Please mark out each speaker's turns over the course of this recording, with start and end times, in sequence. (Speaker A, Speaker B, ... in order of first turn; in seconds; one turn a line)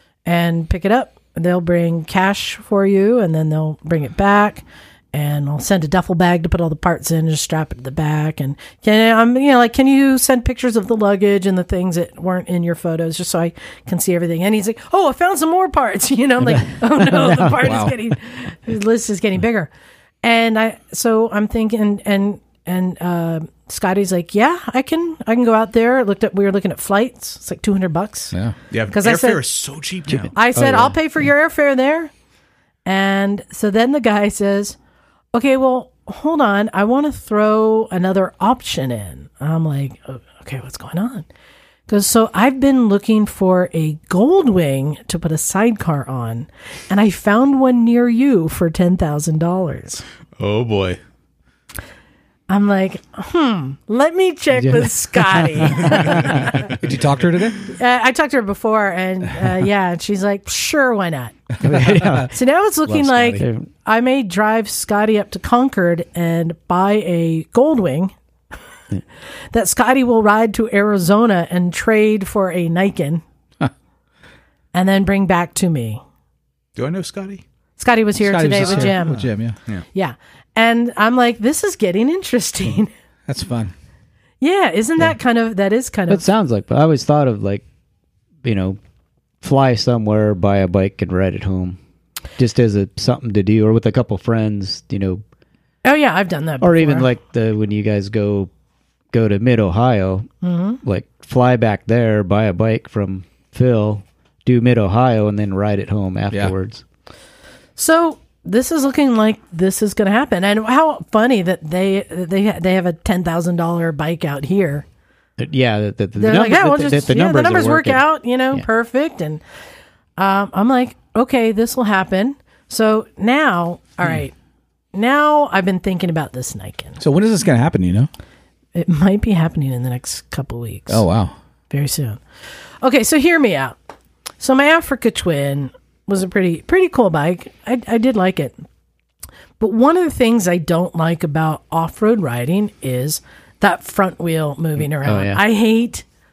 Speaker A: 0.3-19.7
Speaker B: 16.4-17.8
Speaker C: 17.6-17.9
Speaker A: 20.2-28.3
Speaker D: 28.7-30.3
Speaker A: 28.9-29.4
Speaker B: 30.1-31.0
Speaker A: 30.3-32.1
Speaker A: 32.9-34.8
Speaker A: 35.3-41.3
Speaker A: 41.9-50.0
Speaker D: 50.4-51.0
Speaker A: 52.5-56.7
Speaker B: 54.6-56.7
Speaker C: 56.3-57.6
Speaker A: 57.7-61.4
Speaker B: 61.6-62.3
Speaker C: 61.6-62.2
Speaker A: 62.3-68.1
Speaker B: 62.9-63.7
Speaker A: 69.5-73.2
Speaker A: 74.7-76.0
Speaker D: 76.8-77.4
Speaker A: 77.8-79.3
Speaker C: 78.2-79.5
Speaker D: 78.7-79.0
Speaker A: 79.9-82.9
Speaker C: 83.3-83.7
Speaker A: 84.4-86.2
Speaker B: 86.1-87.6
Speaker B: 88.4-88.8
Speaker B: 89.4-91.8
Speaker B: 92.4-95.2
Speaker A: 95.8-97.1
Speaker B: 96.6-98.5
Speaker B: 99.1-100.3
Speaker A: 100.4-100.8
Speaker B: 100.8-106.8
Speaker A: 107.8-114.8
Speaker B: 115.4-118.6
Speaker A: 116.2-119.4
Speaker A: 120.2-124.3
Speaker A: 124.9-127.0
Speaker C: 127.0-128.1
Speaker A: 128.8-131.1
Speaker C: 130.9-131.3
Speaker A: 131.7-132.2
Speaker A: 132.8-133.8
Speaker A: 134.4-138.7
Speaker A: 139.6-146.1
Speaker B: 145.0-145.4